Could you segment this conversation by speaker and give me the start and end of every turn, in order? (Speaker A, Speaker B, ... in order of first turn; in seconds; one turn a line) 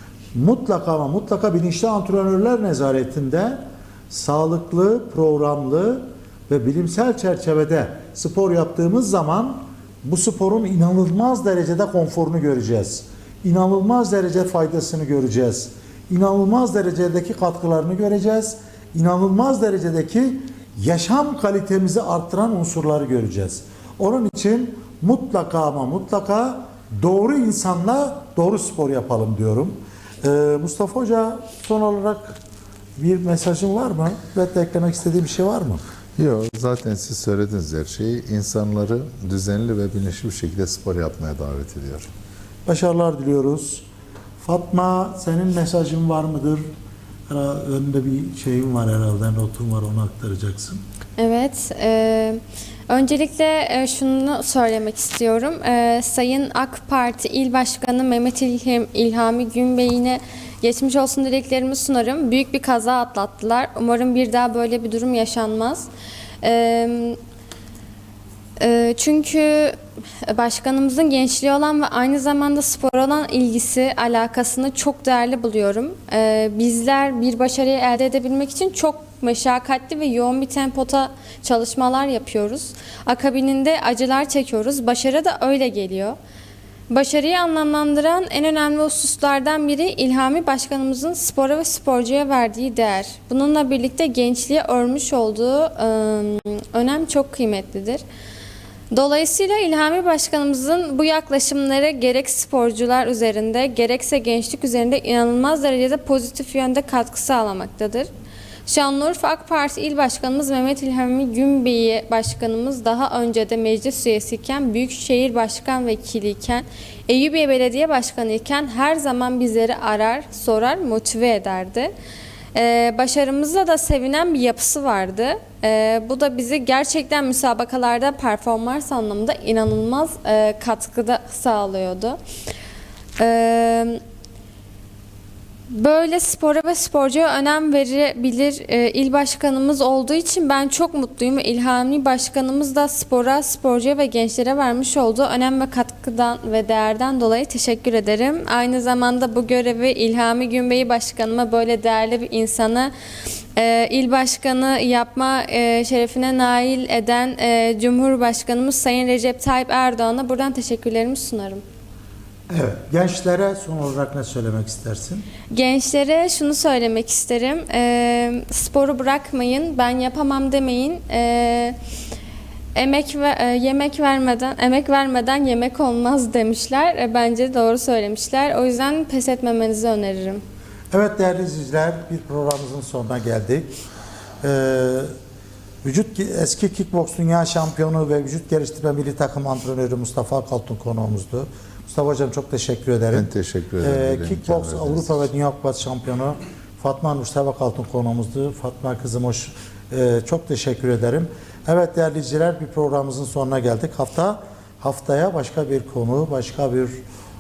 Speaker A: 0.3-32.4
Speaker A: 33.0-35.8
Speaker B: 36.2-42.1
Speaker A: 42.6-43.9
Speaker A: 44.4-46.6
Speaker A: 47.3-50.8
Speaker C: 51.2-65.9
Speaker C: 66.4-67.2
Speaker C: 68.6-86.2
Speaker C: 86.9-98.0
Speaker C: 98.9-108.1
Speaker C: 108.7-121.9
Speaker C: 122.5-132.2
Speaker C: 133.2-134.0
Speaker C: 135.7-152.9
Speaker C: 153.6-161.6
Speaker A: 162.5-165.2
Speaker C: 165.5-171.8
Speaker C: 172.7-180.4
Speaker A: 180.9-183.7
Speaker A: 184.4-185.1
Speaker A: 185.8-193.3
Speaker B: 193.1-195.1
Speaker A: 193.8-207.0